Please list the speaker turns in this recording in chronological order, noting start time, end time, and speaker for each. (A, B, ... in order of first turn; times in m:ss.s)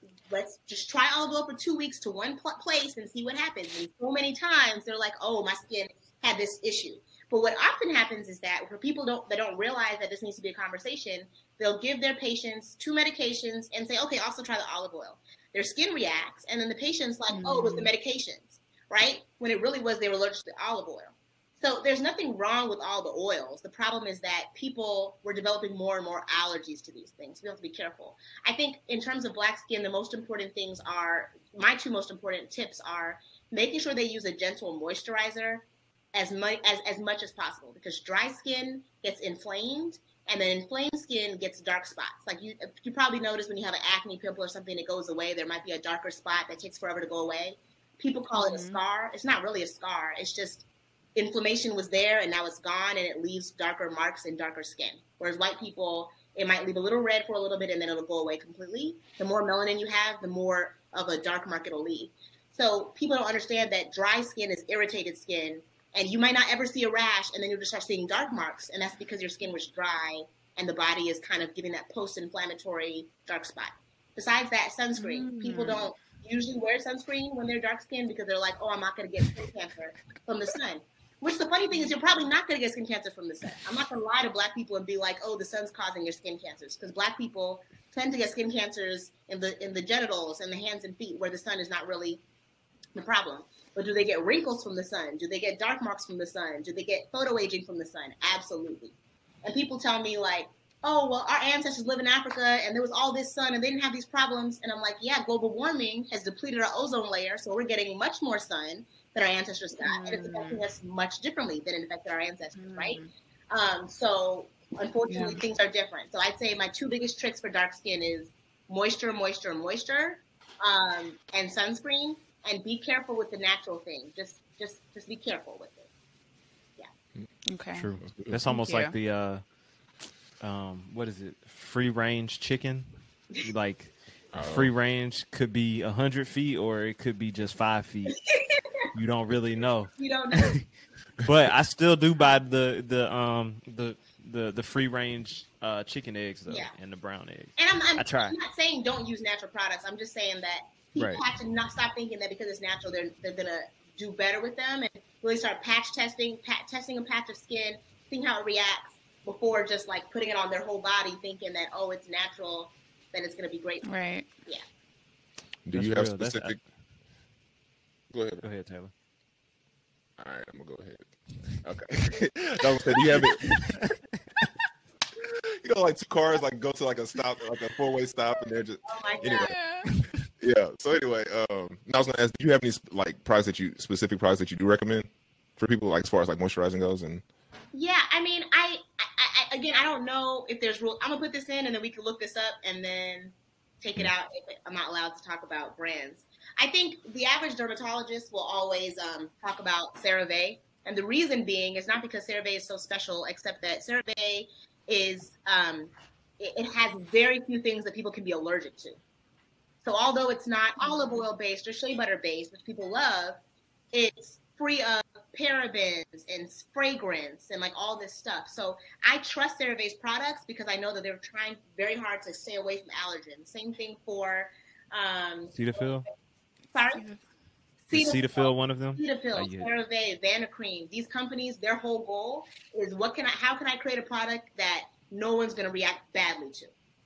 0:00.3-1:32.2 A
0:17.3-0:17.9 B
0:48.4-0:48.8 B
1:15.0-1:15.9 B
1:21.7-1:22.2 B
1:33.0-1:38.9 A
1:39.4-2:05.9 A
1:49.8-1:50.6 B
1:52.6-1:53.1 B
1:55.1-1:55.4 B
2:07.5-2:07.9 B
2:07.8-2:09.4 C
2:08.0-2:08.4 D
2:08.5-2:08.9 B
2:10.4-2:12.9 C
2:13.4-2:18.2 C
2:14.3-2:14.7 D
2:18.3-2:18.9 A
2:18.9-2:20.7 C
2:20.0-2:20.6 A
2:21.2-2:28.4 C
2:26.5-2:26.7 A
2:27.6-2:43.9 A
2:31.0-2:31.2 C
2:43.8-2:44.3 B
2:45.6-2:46.6 D
2:45.7-2:46.6 C
2:48.1-2:48.4 D
2:48.4-2:48.9 C
2:50.2-2:53.6 D
2:52.4-2:54.0 C
2:55.5-2:59.6 D
2:58.8-2:59.5 A
2:59.4-2:59.9 B
3:00.4-3:07.2 D
3:07.7-3:29.0 A
3:29.8-3:33.4 A
3:30.8-3:31.3 B
3:33.9-3:45.9 A
3:45.5-3:46.1 C
3:46.7-3:47.0 A
3:46.9-3:47.2 B
3:47.9-3:56.7 A
3:47.9-3:49.7 C